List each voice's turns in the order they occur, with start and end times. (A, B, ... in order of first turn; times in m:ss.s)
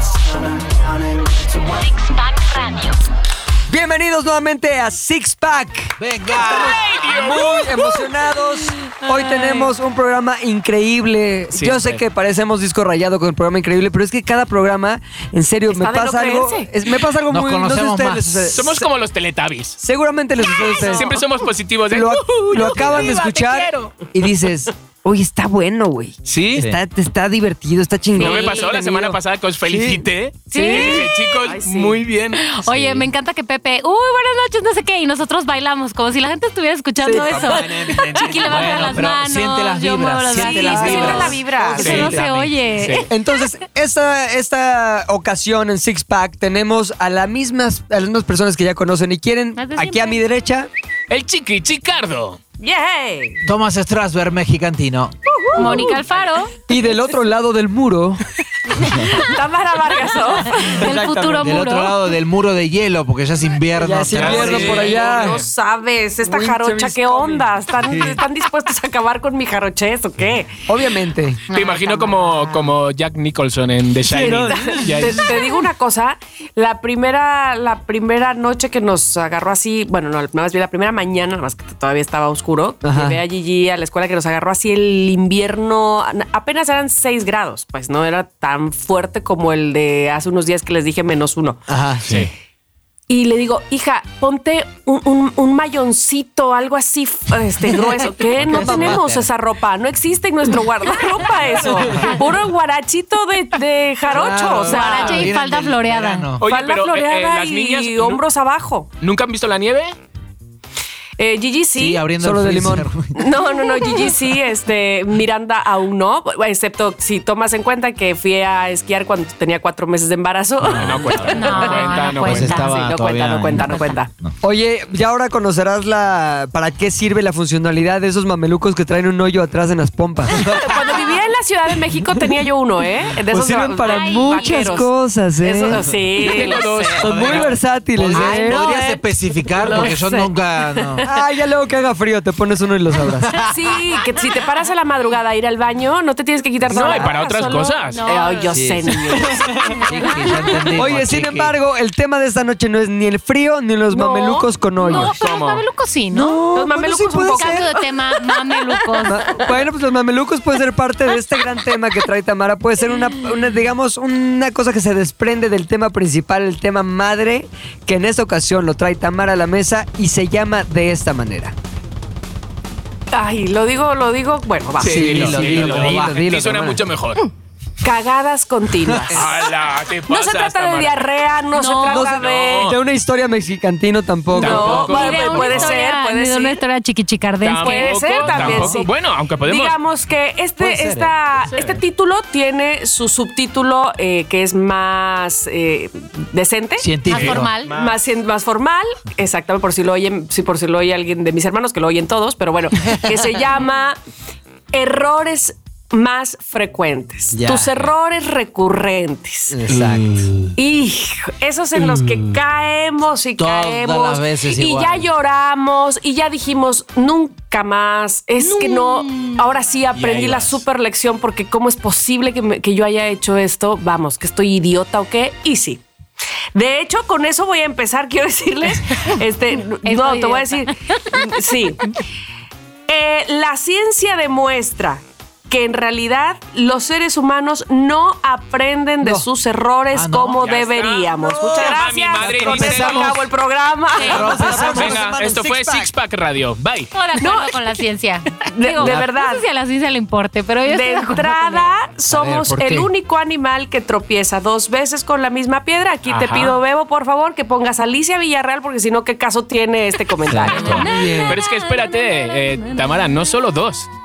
0:01.7-0:03.0 A
0:03.7-0:18.9 B
0:06.0-0:06.8 C
0:06.4-0:08.0 D
0:09.1-0:09.7 A
0:11.5-0:12.0 D
0:15.7-0:16.7 E
0:17.3-0:18.5 C
0:18.5-0:19.8 D
0:19.8-0:21.2 B
0:20.5-0:24.1 D
0:21.9-0:31.0 B
0:26.2-0:26.6 D
0:26.5-0:26.8 C
0:28.1-0:28.7 A
0:28.1-0:32.5 D
0:30.5-0:31.2 A
0:31.4-0:32.0 E
0:32.3-0:43.1 A
0:32.7-0:33.1 C
0:37.0-0:37.6 B
0:37.2-0:42.5 C
0:37.4-0:38.4 D
0:40.4-0:42.2 B
0:40.5-0:42.1 E
0:41.8-0:42.2 D
0:42.8-0:43.1 D
0:43.1-0:50.7 B
0:49.6-0:50.2 A
0:51.1-0:52.4 D
0:52.6-0:53.4 E
0:53.4-0:55.1 C
0:55.3-0:56.0 E
0:55.5-0:56.6 A
0:55.6-0:55.9 B
0:56.7-0:58.2 B
0:58.7-1:00.9 E
1:00.6-1:01.9 A
1:00.7-1:01.5 B
1:01.4-1:04.9 C
1:03.8-1:05.4 B
1:04.1-1:05.4 D
1:04.2-1:10.7 E
1:06.2-1:07.6 B
1:07.8-1:08.2 C
1:10.7-1:11.4 B
1:11.5-1:12.7 A
1:11.5-1:15.3 D
1:14.0-1:15.5 B
1:14.1-1:31.6 E
1:22.8-1:23.2 B
1:31.7-1:32.0 B
1:32.0-1:32.3 C
1:33.1-1:45.3 E
1:38.4-1:39.3 C
1:38.5-1:39.0 B
1:44.1-1:46.4 C
1:44.6-1:46.3 A
1:46.4-1:48.2 D
1:46.4-1:48.9 E
1:49.0-1:50.0 D
1:51.2-1:52.0 E
1:51.7-1:53.3 C
1:52.2-1:52.9 B
1:53.1-2:04.1 E
2:00.6-2:01.4 C
2:00.7-2:02.6 D
2:01.3-2:02.8 A
2:02.2-2:04.4 C
2:04.4-2:10.4 B
2:10.3-2:10.8 C
2:10.3-2:17.0 E
2:13.3-2:15.8 B
2:13.8-2:14.8 A
2:16.2-2:17.5 D
2:16.4-2:18.6 B
2:17.0-2:21.0 C
2:18.1-2:21.2 E
2:21.0-2:23.3 B
2:23.0-2:23.9 C
2:23.4-2:30.6 E
2:26.7-2:28.0 D
2:27.9-2:28.5 A
2:28.5-2:31.6 C
2:29.4-2:29.8 B
2:29.6-2:30.7 A
2:30.7-2:35.2 B
2:33.9-2:35.0 E
2:34.8-2:36.4 A
2:35.0-2:35.6 D
2:36.1-2:37.7 B
2:36.5-2:38.4 E
2:37.2-2:39.3 A
2:39.0-2:39.4 E
2:39.0-2:51.5 B
2:53.1-2:55.3 E
2:54.8-2:57.3 D
2:54.8-2:56.9 B
2:54.9-2:56.2 C
2:57.8-2:59.4 E
2:59.1-3:01.0 D
3:00.1-3:02.7 E
3:01.5-3:02.0 A
3:01.9-3:04.9 B
3:01.9-3:02.8 D
3:04.3-3:05.7 D
3:04.3-3:06.6 E
3:04.6-3:08.4 A
3:07.4-3:09.7 D
3:07.5-3:24.0 E
3:08.2-3:08.8 C
3:10.6-3:11.8 C
3:16.8-3:17.5 C
3:17.0-3:17.7 A
3:17.1-3:17.9 D
3:24.7-3:29.6 E
3:27.3-3:27.8 C
3:29.5-3:30.2 B
3:29.7-3:30.5 C
3:30.5-3:45.8 E
3:31.8-3:32.4 C
3:33.4-3:35.1 C
3:38.4-3:39.6 A
3:39.9-3:40.6 D
3:46.5-3:51.9 E
3:49.8-3:51.5 A
3:52.9-4:04.7 E
3:59.9-4:00.4 C
4:00.4-4:03.2 D
4:02.2-4:03.1 B
4:02.4-4:03.2 C
4:04.0-4:04.2 A
4:04.0-4:05.9 B
4:04.0-4:05.0 C
4:04.2-4:06.9 D
4:06.9-4:11.7 A
4:07.1-4:07.6 E
4:08.5-4:09.5 E
4:08.8-4:09.0 C
4:10.6-4:21.1 E
4:12.1-4:12.9 B
4:16.1-4:16.6 D
4:20.2-4:20.9 C
4:20.5-4:23.2 A
4:20.8-4:21.4 B
4:21.0-4:23.9 D